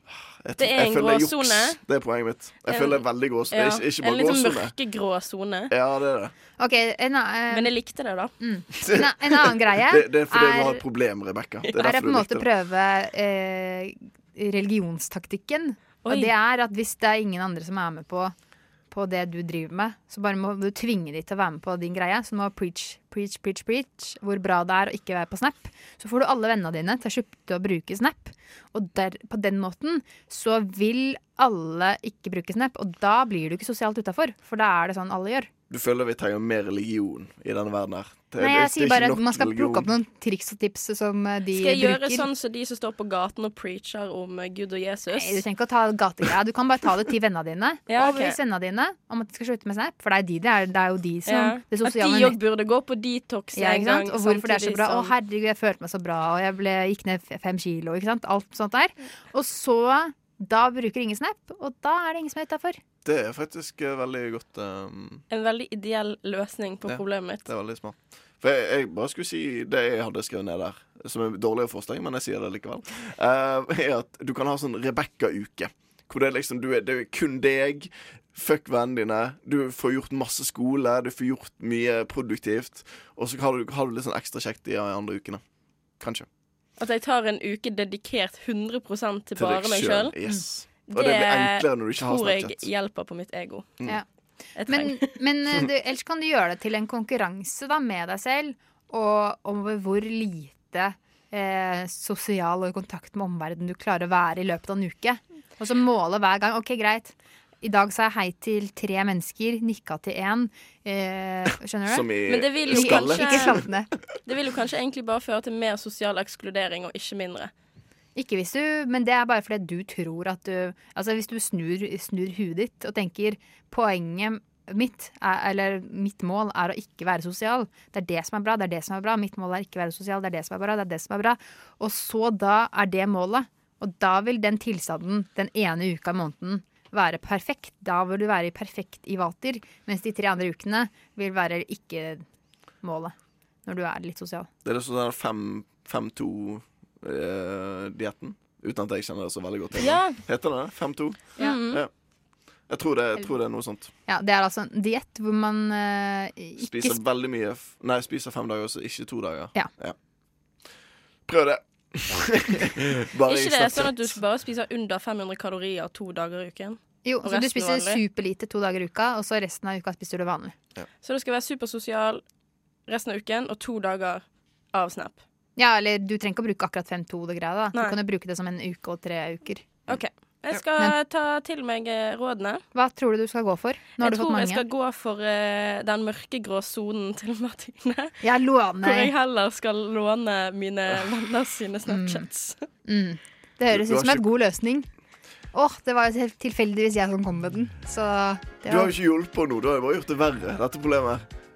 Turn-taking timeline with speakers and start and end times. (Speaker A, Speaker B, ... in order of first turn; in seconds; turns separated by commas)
Speaker A: 0.4-4.7, Speaker B: 0.6-1.8, Speaker B: 2.6-5.7, Speaker A: 5.7-6.3, Speaker C: 6.6-7.7, Speaker B: 7.5-8.3, Speaker C: 8.4-10.8, Speaker A: 8.7-12.5, Speaker C: 11.7-18.3, Speaker B: 16.0-16.4, Speaker C: 18.9-35.5, Speaker A: 35.7-39.9, Speaker C: 38.4-42.3, Speaker B: 41.5-45.4, Speaker C: 45.1-52.4, Speaker B: 47.9-48.4, Speaker B: 51.2-55.1, Speaker C: 53.5-62.8, Speaker A: 63.0-65.2, Speaker B: 65.3-67.4, Speaker A: 66.9-85.4, Speaker A: 86.0-86.3, Speaker B: 86.8-90.2, Speaker A: 89.3-92.7, Speaker B: 90.8-93.8, Speaker B: 94.6-95.1, Speaker C: 94.7-113.9, Speaker A: 111.8-113.8, Speaker B: 112.2-113.6, Speaker B: 114.3-117.5, Speaker C: 118.2-142.2, Speaker C: 142.8-143.1, Speaker C: 143.7-144.5, Speaker A: 144.6-151.9, Speaker B: 149.8-150.2, Speaker B: 151.4-151.8, Speaker A: 152.7-153.9, Speaker C: 154.1-157.0, Speaker A: 156.6-159.9, Speaker A: 161.3-164.2, Speaker B: 163.2-168.0, Speaker C: 167.1-170.5, Speaker B: 171.0-172.2, Speaker B: 172.9-175.2, Speaker C: 175.6-179.7, Speaker B: 177.7-178.0, Speaker B: 179.9-182.6, Speaker C: 182.7-184.6, Speaker B: 184.0-188.2, Speaker C: 188.2-189.1, Speaker B: 188.8-192.6, Speaker C: 191.9-192.3, Speaker C: 192.9-194.9, Speaker A: 193.7-194.3, Speaker C: 195.5-198.9, Speaker A: 198.6-201.2